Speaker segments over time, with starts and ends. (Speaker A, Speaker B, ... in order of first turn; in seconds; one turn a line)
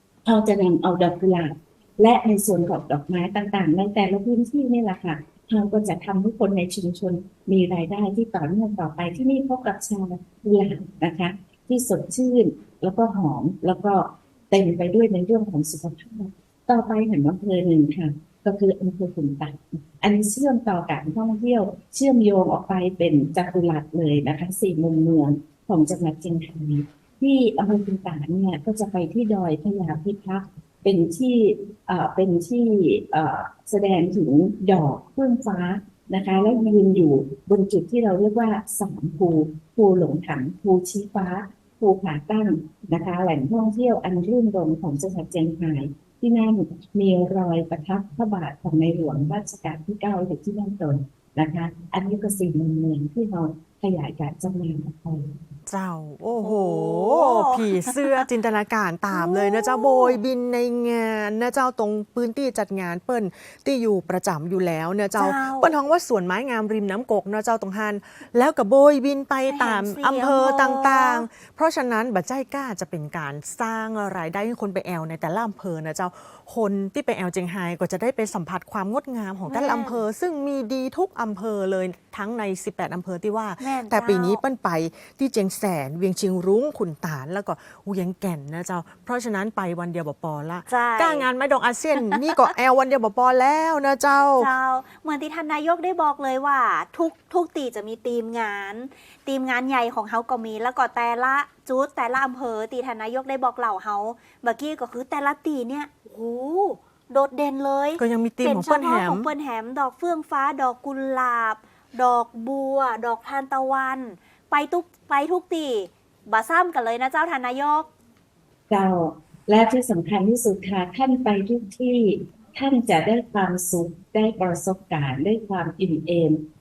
Speaker A: 0.2-55.3
Speaker B: 36.2-36.6
Speaker C: 55.7-94.5
Speaker B: 56.4-58.2
Speaker B: 59.1-60.2
Speaker B: 65.2-65.7
Speaker B: 69.5-71.2
Speaker B: 79.5-80.0
Speaker B: 83.6-84.4
Speaker B: 90.7-91.3
Speaker B: 92.0-92.5
Speaker B: 94.4-117.9
Speaker C: 108.0-109.3
Speaker A: 118.7-126.4